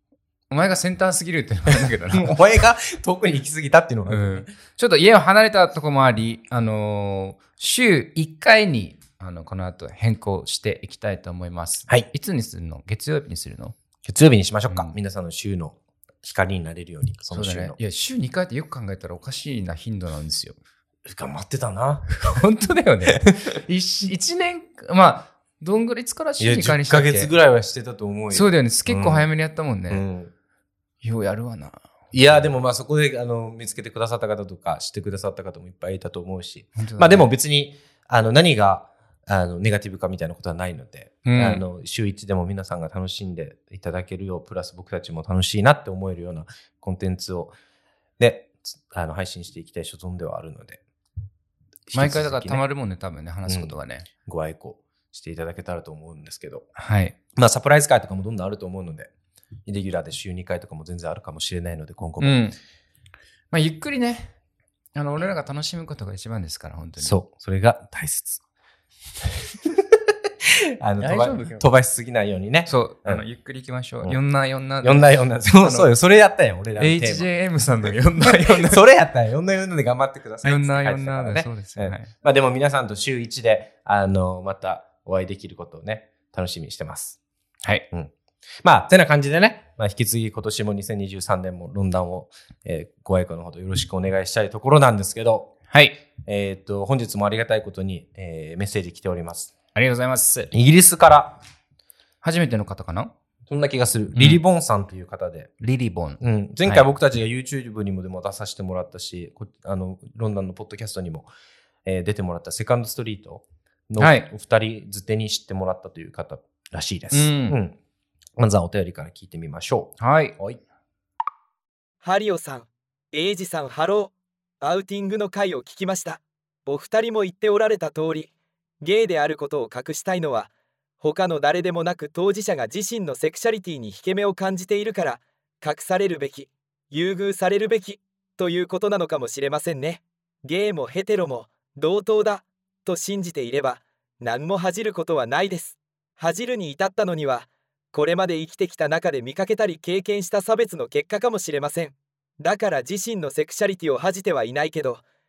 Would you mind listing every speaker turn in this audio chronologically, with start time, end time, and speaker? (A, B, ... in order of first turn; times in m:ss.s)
0:00.5-0:02.3 A
0:02.1-0:04.5 B
0:04.1-0:13.8 A
0:14.0-0:17.8 B
0:14.7-0:14.9 A
0:17.3-0:20.6 A
0:21.0-0:22.1 B
0:22.2-0:27.3 A
0:23.1-0:23.3 B
0:26.4-0:29.3 B
0:28.3-0:30.0 A
0:29.9-0:30.3 B
0:31.0-0:32.5 A
0:32.1-0:47.6 B
0:36.8-0:37.3 A
0:41.2-0:41.6 A
0:48.2-0:50.8 B
0:51.9-0:52.6 B
0:51.9-0:54.1 A
0:53.5-0:56.7 B
0:56.8-0:57.1 A
0:57.3-0:59.1 B
0:59.6-1:02.4 B
1:02.2-1:02.6 A
1:03.5-1:04.3 A
1:04.9-1:07.2 A
1:07.0-1:08.4 B
1:09.6-1:13.2 B
1:11.0-1:11.6 A
1:12.7-1:15.9 A
1:14.8-1:17.3 B
1:16.8-1:18.8 A
1:18.3-1:27.2 B
1:20.4-1:22.1 A
1:28.6-1:35.5 B
1:35.7-1:36.0 A
1:36.2-1:39.6 B
1:39.7-1:40.5 A
1:40.5-1:41.4 B
1:42.2-1:43.1 A
1:43.5-1:45.5 B
1:44.1-1:44.4 A
1:45.6-1:46.8 A
1:46.2-1:51.3 B
1:51.8-1:57.8 B
1:54.0-1:54.3 A
1:57.1-1:57.6 A
1:58.4-2:00.6 B
2:00.0-2:00.4 A
2:02.0-2:10.5 C
2:11.0-2:35.0 C